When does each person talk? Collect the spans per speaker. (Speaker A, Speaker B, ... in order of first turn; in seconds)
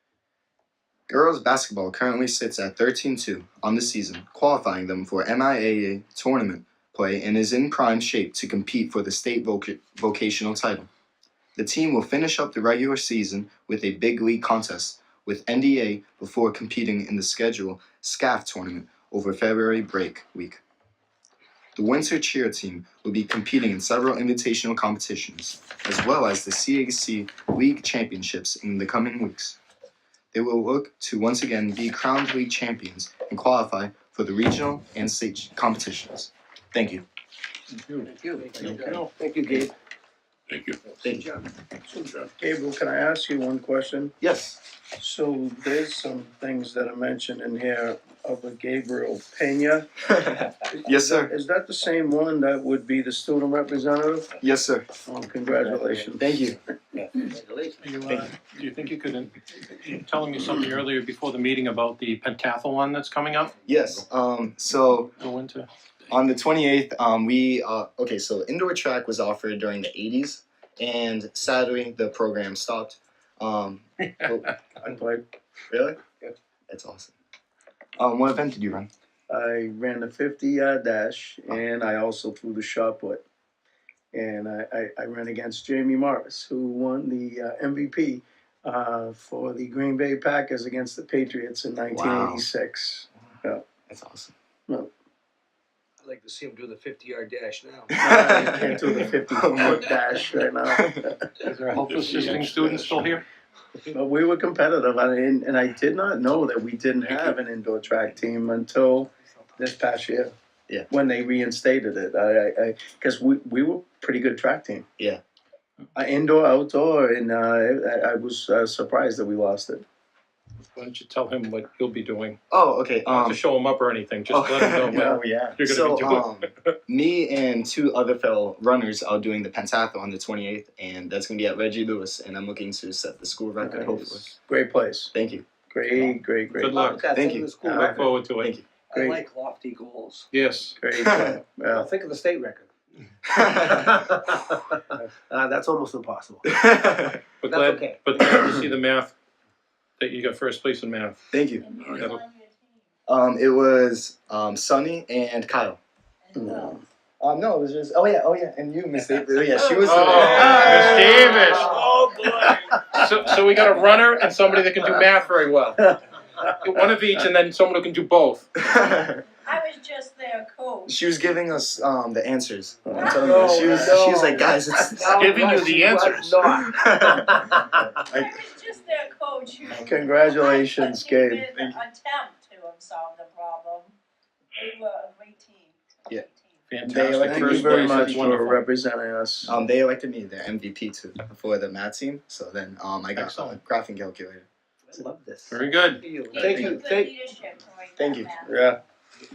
Speaker A: 1.1-10.9, 11.6-20.6, 21.8-29.6, 30.3-37.0, 44.2-44.6, 50.1-51.3, 54.4-54.9, 56.2-56.6, 58.1-58.3, 63.7-65.1, 66.1-74.5, 75.7-76.0, 76.7-77.1, 78.0-78.9, 91.9-92.4, 93.9-94.3, 98.0-99.8, 100.7-101.0, 102.3-103.0, 107.1-107.3, 122.5-123.4, 124.3-134.3, 135.1-135.5, 137.1-138.7, 141.0-141.4, 143.3-144.2, 146.4-147.2, 151.3-151.7, 153.1-155.8, 157.2-161.4, 168.6-169.2, 170.9-175.4, 176.6-178.4, 181.5-181.8, 186.9-188.3, 189.4-194.5, 196.4-196.8, 198.0-198.3
Speaker B: 37.8-39.1, 57.8-63.5, 65.2-65.7, 101.5-103.2, 120.8-122.4, 123.1-126.7, 136.5-137.1, 137.6-138.5, 140.3-140.8, 147.4-149.1, 150.0-151.2, 159.8-161.8, 162.9-165.9, 166.6-168.6, 175.1-176.7, 186.7-188.6, 193.2-193.6, 195.5-196.5
Speaker C: 38.0-39.7, 41.0-41.4, 57.3-57.8, 96.0-98.0, 135.9-138.1, 138.9-140.3, 141.7-142.7, 143.6-148.6, 160.3-162.1, 173.1-177.8, 194.9-197.2
Speaker D: 40.5-40.8, 41.8-42.3, 101.8-102.5, 151.8-152.1
Speaker E: 42.4-44.1, 45.0-49.9, 50.8-54.4, 55.1-56.4, 74.9-75.2, 79.3-83.2, 84.1-93.6, 97.9-101.3, 103.9-110.3, 110.9-114.9, 116.0-119.8, 124.9-125.2, 133.6-135.1, 135.7-136.8, 137.6-138.1, 138.9-139.2, 140.8-141.9, 156.3-156.8, 172.9-174.9, 179.8-181.4, 187.2-189.6, 198.4-198.8
Speaker F: 152.0-152.5, 161.2-161.6, 169.3-171.0, 172.9-173.3, 178.1-183.9, 184.6-186.5, 196.3-198.6